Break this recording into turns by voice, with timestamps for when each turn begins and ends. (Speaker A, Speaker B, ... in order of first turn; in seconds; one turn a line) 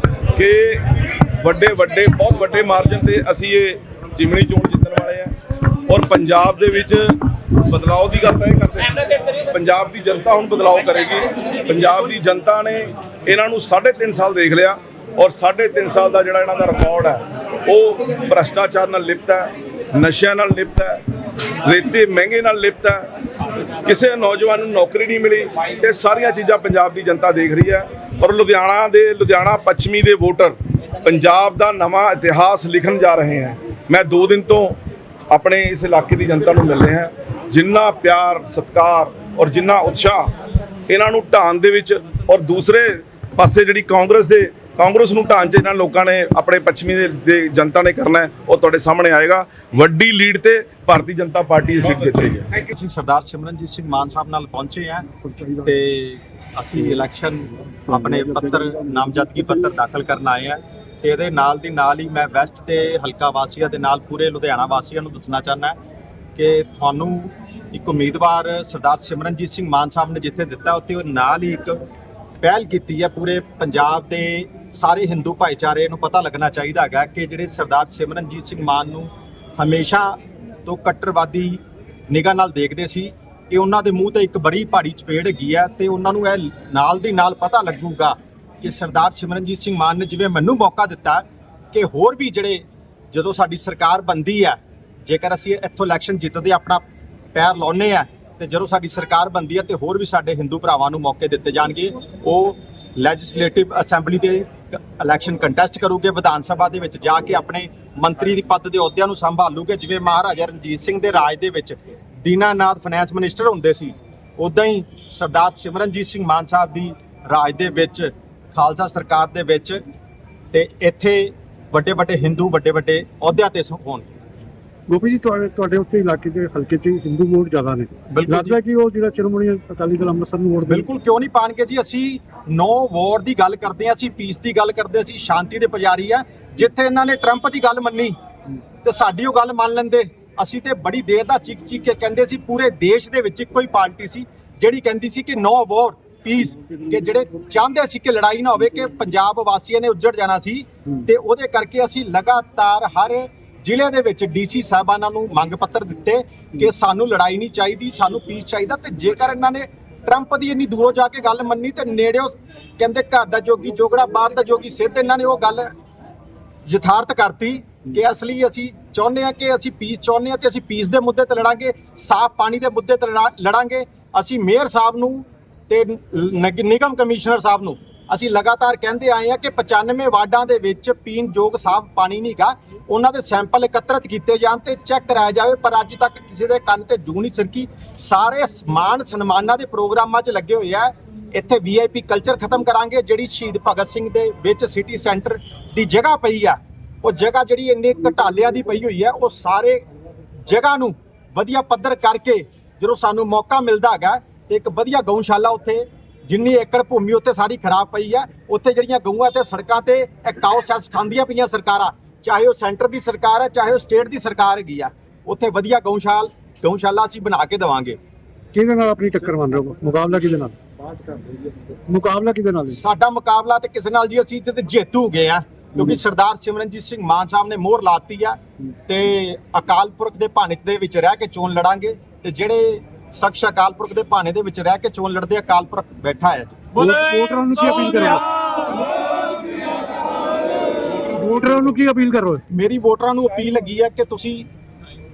Speaker A: 0.3-0.8
Speaker A: 1.4-5.3
Speaker A: 5.9-21.0
Speaker A: 21.6-23.1
Speaker A: 23.8-34.8
Speaker A: 35.3-40.3
Speaker A: 40.9-52.5
Speaker B: 52.5-55.1
Speaker C: 55.2-55.7
Speaker B: 55.6-65.8
Speaker B: 66.3-71.8
Speaker B: 72.4-119.8
Speaker B: 120.5-124.1
Speaker C: 124.9-130.8
Speaker B: 128.1-128.6
Speaker B: 130.7-138.2
Speaker B: 138.8-165.7
Speaker B: 166.7-199.8
Speaker B: 200.4-218.0
Speaker C: 218.5-222.8
Speaker B: 222.7-236.6
Speaker C: 236.7-238.2
Speaker C: 241.1-242.4
Speaker B: 242.5-244.5